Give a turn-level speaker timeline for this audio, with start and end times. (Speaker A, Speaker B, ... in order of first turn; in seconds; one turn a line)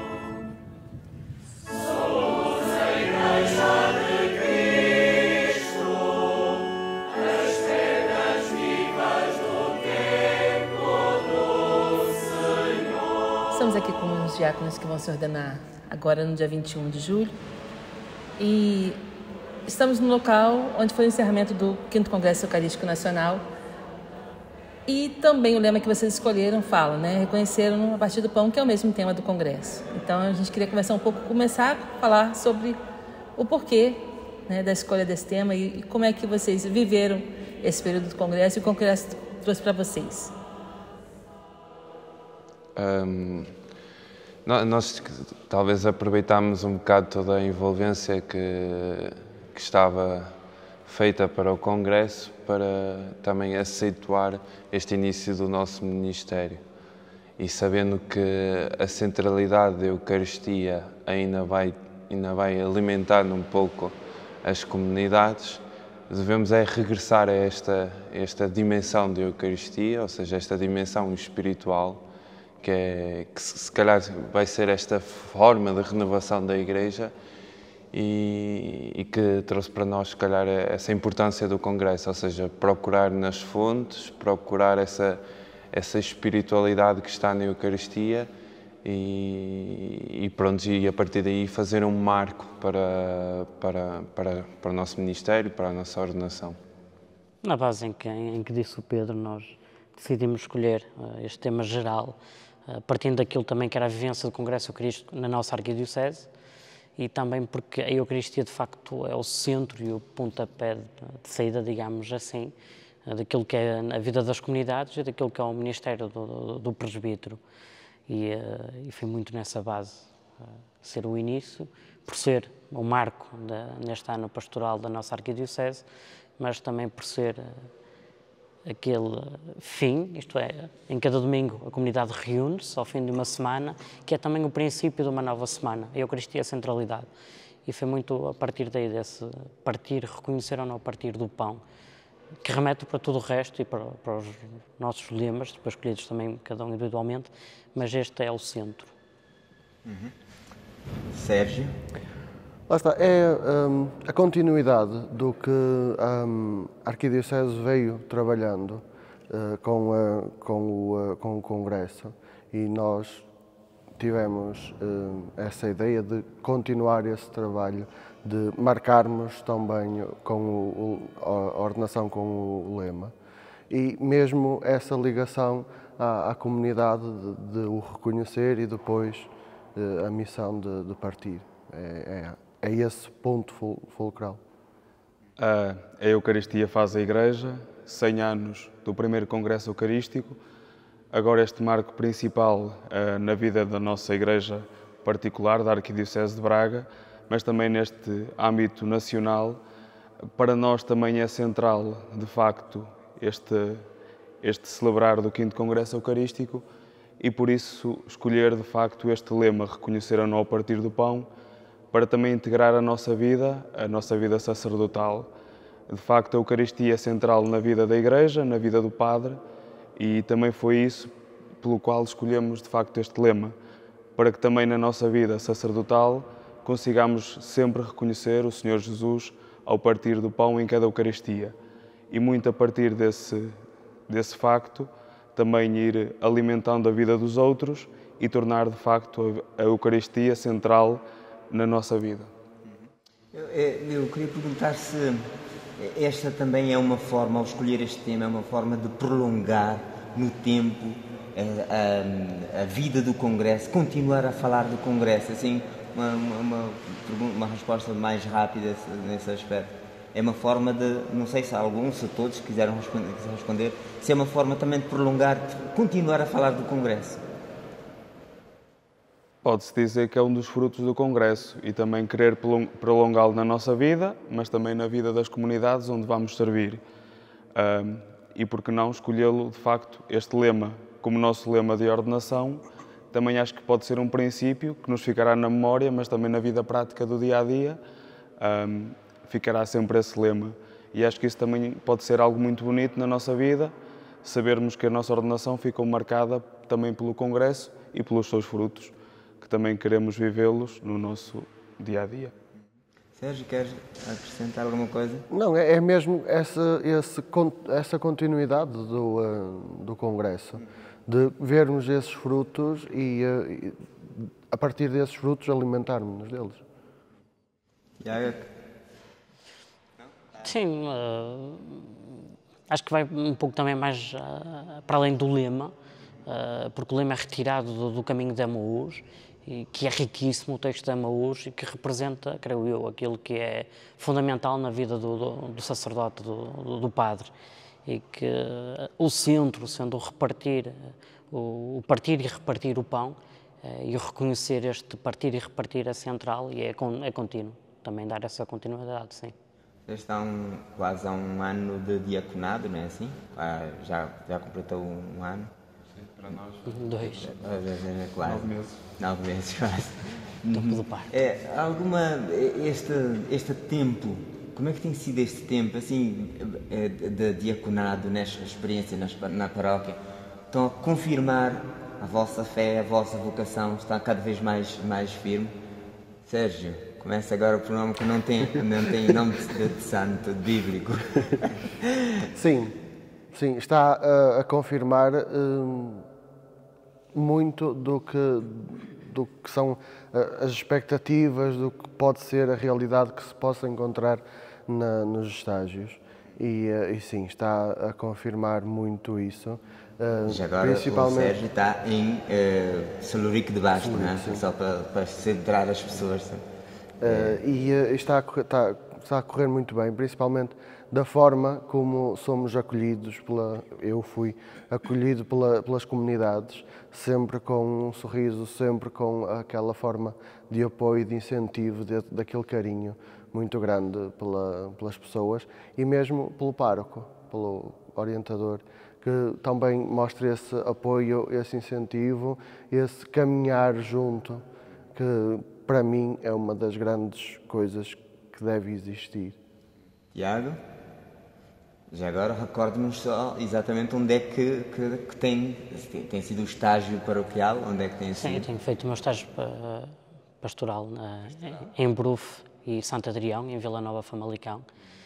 Speaker A: 13.5-17.3
Speaker A: 18.4-19.0
Speaker A: 19.6-23.4
Speaker A: 24.9-32.8
Speaker A: 33.4-40.3
Speaker B: 42.8-43.5
Speaker B: 44.4-56.6
Speaker B: 57.4-72.0
Speaker B: 72.6-77.1
Speaker B: 77.9-88.3
Speaker B: 88.8-96.6
Speaker C: 97.4-106.3
Speaker C: 107.0-112.5
Speaker C: 113.0-117.4
Speaker C: 118.1-120.1
Speaker C: 120.8-125.8
Speaker C: 126.4-127.7
Speaker C: 128.7-137.1
Speaker C: 137.6-141.6
Speaker C: 142.4-148.9
Speaker D: 149.8-150.1
Speaker D: 151.1-151.8
Speaker E: 152.7-163.2
Speaker E: 164.0-173.1
Speaker E: 173.7-184.4
Speaker F: 185.4-190.4
Speaker F: 191.1-199.6
Speaker F: 200.3-203.9
Speaker F: 204.4-206.6
Speaker F: 207.2-211.3
Speaker F: 211.9-215.3
Speaker F: 215.9-219.4
Speaker F: 219.9-223.5
Speaker F: 224.2-231.6
Speaker F: 232.1-242.3
Speaker D: 243.3-267.2
Speaker F: 269.4-276.8
Speaker F: 277.5-287.8
Speaker F: 288.4-302.3
Speaker D: 303.1-305.2
Speaker E: 305.3-316.6
Speaker D: 318.0-318.5
Speaker C: 320.4-322.1
Speaker C: 322.7-325.7
Speaker C: 326.2-337.3
Speaker C: 337.9-349.3
Speaker D: 349.9-355.5
Speaker B: 355.9-356.8
Speaker C: 356.6-357.3
Speaker D: 357.2-375.5
Speaker F: 358.2-358.7
Speaker C: 360.5-361.1
Speaker D: 376.2-382.2
Speaker E: 382.3-382.8
Speaker E: 383.3-386.1
Speaker E: 387.1-401.4
Speaker D: 400.3-406.4
Speaker E: 403.7-404.4
Speaker E: 407.0-439.4
Speaker D: 407.0-407.3
Speaker D: 440.1-440.6
Speaker D: 441.9-448.5
Speaker C: 448.2-454.6